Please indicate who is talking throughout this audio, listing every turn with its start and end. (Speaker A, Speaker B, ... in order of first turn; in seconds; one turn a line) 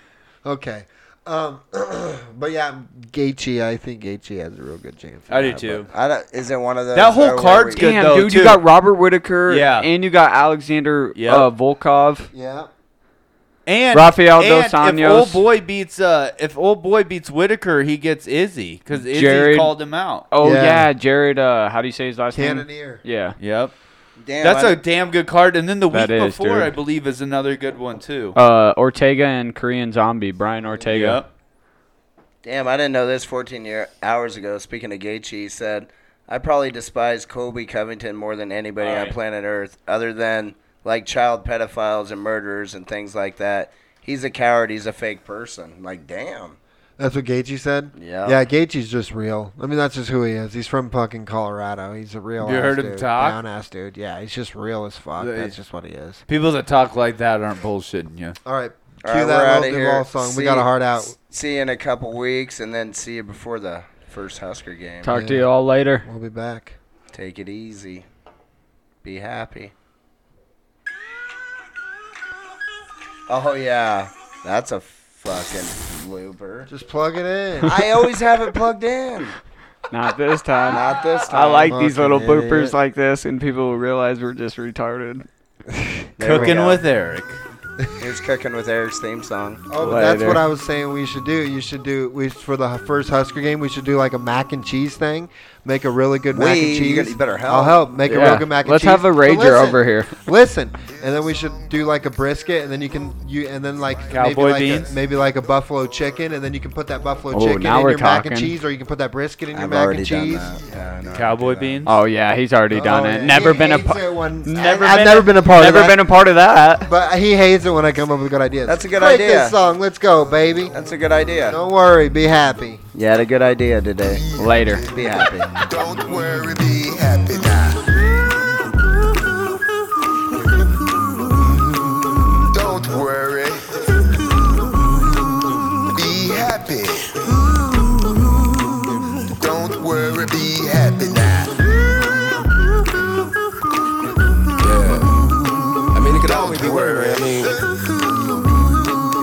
Speaker A: 0.4-5.8
Speaker B: 5.3-5.9
Speaker C: 5.8-7.9
Speaker B: 6.9-8.6
Speaker D: 7.7-12.3
Speaker B: 9.5-9.9
Speaker B: 11.2-11.5
Speaker A: 12.3-12.7
Speaker B: 13.7-20.2
Speaker D: 13.9-15.4
Speaker D: 19.1-19.7
Speaker D: 20.3-23.4
Speaker A: 20.4-20.9
Speaker A: 22.3-23.0
Speaker B: 23.4-23.7
Speaker C: 24.2-24.8
Speaker B: 24.4-28.4
Speaker D: 25.9-26.7
Speaker D: 28.3-31.2
Speaker B: 30.9-31.3
Speaker C: 32.4-46.6
Speaker B: 38.8-39.1
Speaker A: 47.0-56.2
Speaker C: 48.0-48.4
Speaker B: 52.4-53.4
Speaker B: 55.2-55.5
Speaker B: 56.3-58.4
Speaker A: 58.4-61.1
Speaker C: 59.0-65.1
Speaker D: 65.0-66.0
Speaker A: 65.1-65.5
Speaker A: 66.0-66.8
Speaker C: 67.1-68.0
Speaker C: 69.0-69.7
Speaker C: 73.3-76.7
Speaker A: 76.7-77.8
Speaker C: 77.6-79.3
Speaker D: 79.9-85.2
Speaker C: 80.7-81.7
Speaker A: 81.3-82.8
Speaker C: 86.2-86.8
Speaker B: 86.2-87.4
Speaker C: 88.0-89.6
Speaker A: 89.7-110.5
Speaker D: 89.8-90.4
Speaker C: 96.3-97.8
Speaker D: 98.1-100.1
Speaker B: 104.1-104.9
Speaker D: 107.3-108.5
Speaker C: 109.5-111.9
Speaker B: 111.1-111.9
Speaker D: 111.8-116.9
Speaker A: 112.7-116.0
Speaker A: 116.8-120.7
Speaker C: 118.7-119.5
Speaker C: 120.7-121.6
Speaker A: 121.5-122.8
Speaker C: 122.9-124.2
Speaker E: 124.1-128.2
Speaker D: 124.4-124.8
Speaker C: 124.9-125.5
Speaker E: 130.6-131.4
Speaker E: 132.5-133.7
Speaker E: 134.6-135.0
Speaker E: 135.9-142.0
Speaker F: 144.6-145.3
Speaker F: 145.9-147.5
Speaker E: 146.2-149.0